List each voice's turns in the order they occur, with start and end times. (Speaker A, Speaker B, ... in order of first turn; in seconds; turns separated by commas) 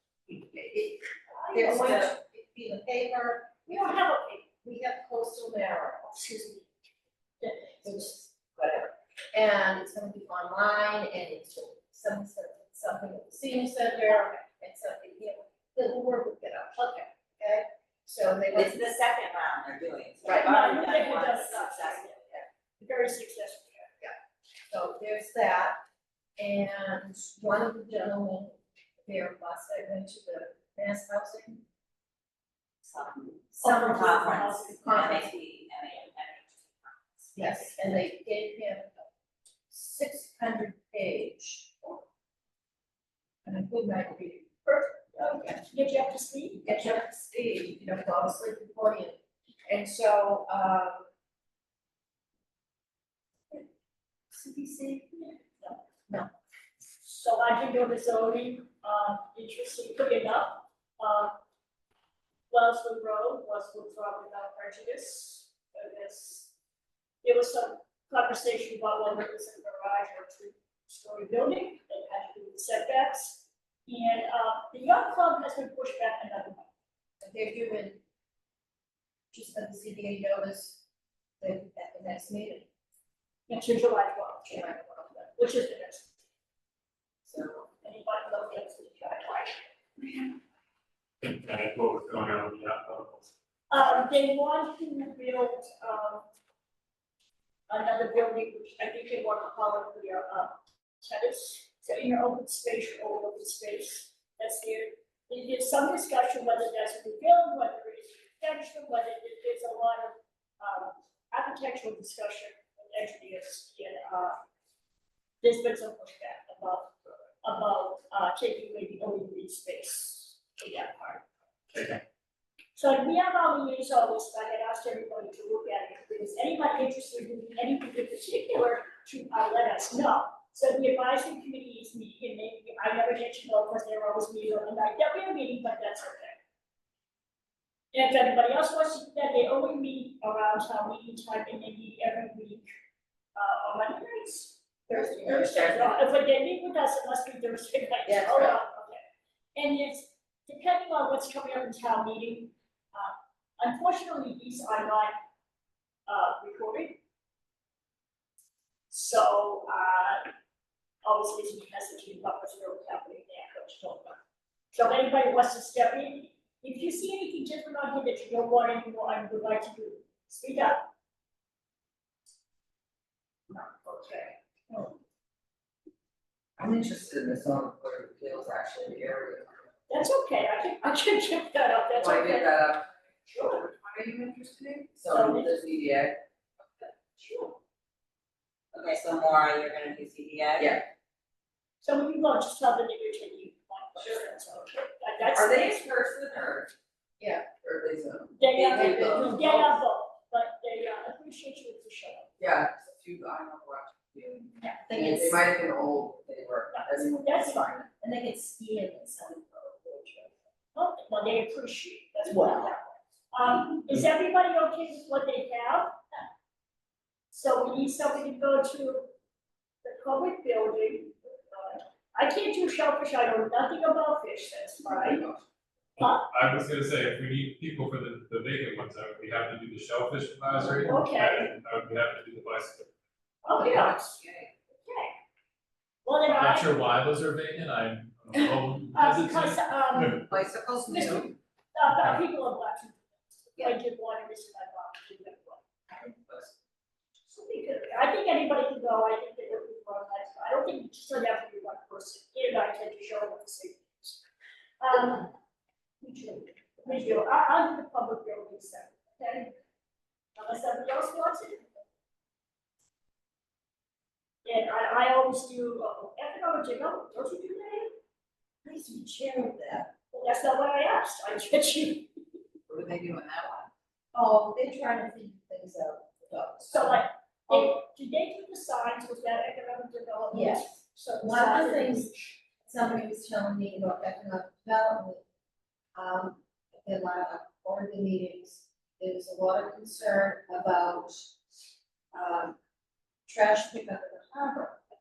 Speaker A: 0.3-3.6, Speaker B: 1.3-2.1, Speaker C: 1.8-2.1, Speaker B: 3.6-4.5, Speaker A: 4.6-6.2, Speaker B: 6.1-6.7, Speaker B: 7.4-7.8, Speaker A: 7.8-16.8, Speaker B: 16.8-17.1, Speaker A: 17.4-18.9, Speaker C: 18.5-22.4, Speaker A: 20.2-20.5, Speaker B: 20.3-22.1, Speaker B: 22.8-23.9, Speaker A: 24.7-25.8, Speaker A: 26.4-31.6, Speaker C: 32.8-37.4, Speaker A: 33.6-35.3, Speaker B: 33.6-35.1, Speaker A: 37.3-38.9, Speaker A: 39.7-42.0, Speaker A: 43.4-44.5, Speaker B: 44.7-47.0, Speaker A: 45.2-45.6, Speaker A: 46.6-49.2, Speaker A: 49.7-51.0, Speaker A: 54.3-55.0, Speaker B: 54.5-55.8, Speaker B: 57.0-61.4, Speaker B: 62.5-66.5, Speaker B: 67.2-76.7, Speaker A: 77.2-78.0, Speaker A: 79.3-80.8, Speaker A: 81.4-82.7, Speaker B: 83.5-86.1, Speaker A: 84.5-85.1, Speaker A: 87.3-87.6, Speaker B: 87.7-89.6, Speaker D: 91.2-93.3, Speaker B: 93.7-96.2, Speaker B: 97.7-114.4, Speaker B: 115.4-116.9, Speaker B: 117.4-121.2, Speaker D: 121.7-122.0, Speaker B: 122.8-136.4, Speaker B: 137.9-142.7, Speaker B: 143.3-149.0, Speaker A: 144.9-145.6, Speaker B: 149.5-155.2, Speaker B: 156.1-157.0, Speaker B: 158.9-160.3, Speaker B: 161.0-164.2, Speaker B: 164.7-170.8, Speaker B: 173.5-174.9, Speaker E: 176.6-179.7, Speaker B: 179.9-182.5, Speaker E: 181.9-186.2, Speaker B: 183.3-183.6, Speaker B: 185.1-185.6, Speaker B: 187.2-187.6, Speaker C: 188.7-190.8, Speaker E: 190.6-190.8, Speaker B: 191.8-195.9, Speaker E: 195.3-196.7, Speaker A: 197.2-197.5, Speaker E: 197.5-199.7, Speaker B: 198.3-202.3, Speaker A: 198.7-199.6, Speaker E: 202.4-207.9, Speaker A: 204.8-205.4, Speaker B: 206.7-207.7, Speaker A: 208.0-210.3, Speaker B: 210.7-216.0, Speaker A: 212.2-212.7, Speaker B: 217.3-219.1, Speaker B: 219.8-225.2, Speaker D: 226.0-232.9, Speaker B: 226.0-226.3, Speaker B: 230.8-231.5, Speaker B: 233.4-234.1, Speaker E: 233.6-234.5, Speaker B: 234.8-235.1, Speaker B: 236.0-236.8, Speaker D: 236.3-240.3, Speaker B: 238.9-240.2, Speaker E: 240.3-241.3, Speaker B: 240.8-245.6, Speaker E: 246.0-246.5, Speaker B: 247.3-254.2, Speaker B: 254.8-255.3, Speaker B: 256.0-259.5, Speaker B: 260.4-261.7, Speaker B: 264.4-267.9, Speaker A: 268.6-269.9, Speaker B: 270.1-272.1, Speaker E: 272.7-273.7, Speaker A: 274.1-277.7, Speaker B: 276.7-282.3, Speaker A: 280.3-285.2, Speaker A: 285.9-291.3, Speaker A: 292.1-292.6, Speaker A: 293.2-294.8